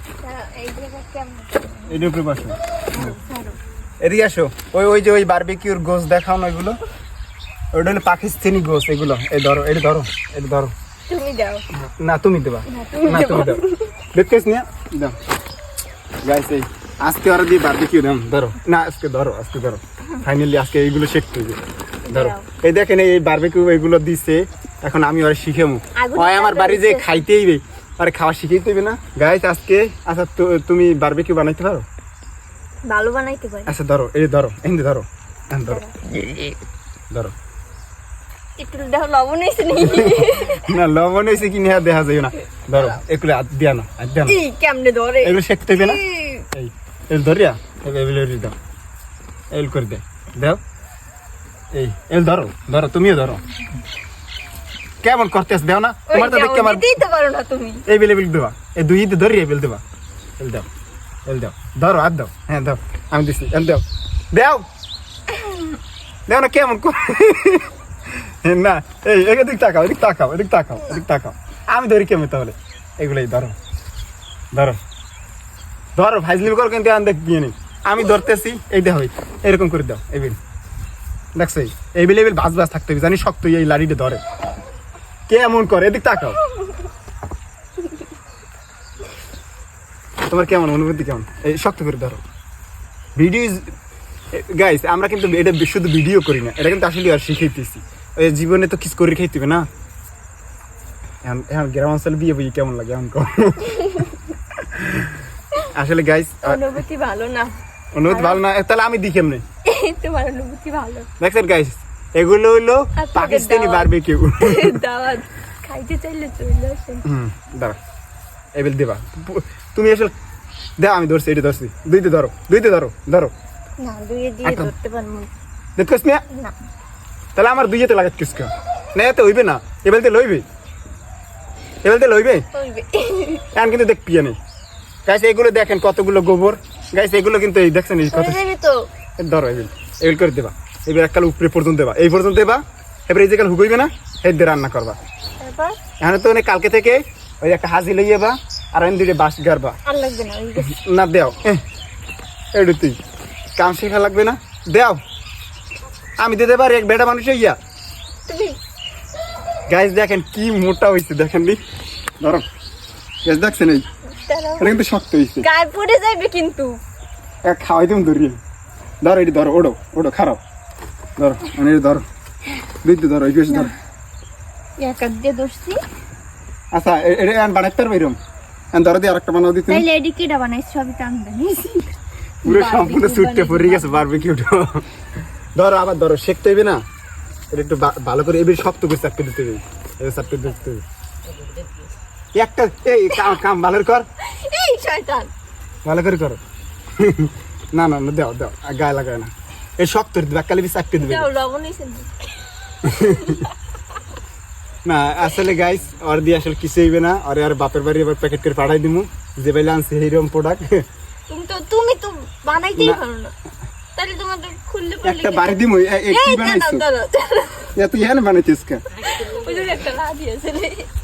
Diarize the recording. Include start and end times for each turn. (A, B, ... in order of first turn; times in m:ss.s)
0:00.2-0:02.0 A
0:01.9-0:03.1 B
0:02.9-0:03.6 A
0:04.0-0:06.8 B
0:07.7-0:10.7 B
0:11.1-0:11.6 A
0:11.7-0:15.2 B
0:12.7-0:13.8 A
0:16.2-0:31.8 B
0:22.0-0:22.5 A
0:25.9-0:27.2 A
0:32.8-0:33.7 A
0:33.6-0:35.8 B
0:35.7-0:36.2 A
0:38.6-0:40.7 A
0:39.7-0:44.4 B
0:44.2-0:46.4 A
0:45.2-0:46.0 B
0:46.5-0:48.5 B
0:49.5-0:50.6 B
0:51.7-0:53.4 B
0:55.0-0:56.9 B
0:56.1-0:57.8 A
0:57.8-0:59.8 B
1:00.4-1:00.7 B
1:01.3-1:04.6 B
1:06.3-1:13.5 B
1:14.5-1:14.8 B
1:16.0-1:20.4 B
1:21.4-1:24.2 B
1:25.3-1:26.4 B
1:30.3-1:32.2 B
1:33.2-1:33.7 B
1:34.3-1:39.7 B
1:41.2-1:43.9 B
1:43.7-1:44.1 A
1:44.6-1:45.2 B
1:45.7-1:46.6 B
1:46.4-1:47.5 A
1:47.9-1:49.4 B
1:48.1-1:48.4 A
1:49.6-1:51.1 A
1:51.2-1:54.8 B
1:53.0-1:57.0 A
1:57.0-1:57.8 B
1:58.5-2:00.1 B
2:00.8-2:03.3 B
2:03.8-2:05.3 A
2:04.4-2:04.7 B
2:05.8-2:06.2 B
2:07.3-2:10.4 B
2:11.8-2:12.4 B
2:12.5-2:13.5 A
2:13.5-2:14.4 B
2:15.0-2:18.4 B
2:18.1-2:18.9 A
2:19.2-2:25.0 B
2:25.4-2:25.8 A
2:26.0-2:29.8 B
2:29.8-2:30.8 A
2:30.6-2:31.6 B
2:32.5-2:33.0 B
2:33.6-2:35.0 B
2:36.2-2:37.6 B
2:38.3-2:38.6 A
2:39.7-2:41.6 B
2:42.2-2:42.4 B
2:43.2-2:43.8 B
2:44.1-2:44.8 A
2:44.6-2:45.4 B
2:45.4-2:46.8 A
2:47.4-2:48.4 B
2:49.0-2:50.4 B
2:51.2-2:52.0 B
2:52.8-2:53.7 B
2:54.8-2:55.8 A
2:56.7-2:58.2 B
2:58.7-2:59.8 B
2:59.7-3:01.9 A
3:02.4-3:04.1 A
3:02.4-3:04.8 B
3:05.6-3:06.8 B
3:07.5-3:10.8 B
3:12.4-3:14.0 B
3:14.2-3:15.3 A
3:15.8-3:16.4 B
3:17.0-3:21.3 B
3:21.0-3:22.1 A
3:22.8-3:23.4 B
3:23.0-3:23.5 A
3:24.8-3:30.8 B
3:31.3-3:33.3 A
3:33.9-3:37.8 A
3:35.0-3:36.8 B
3:37.7-3:38.8 B
3:39.0-3:40.9 A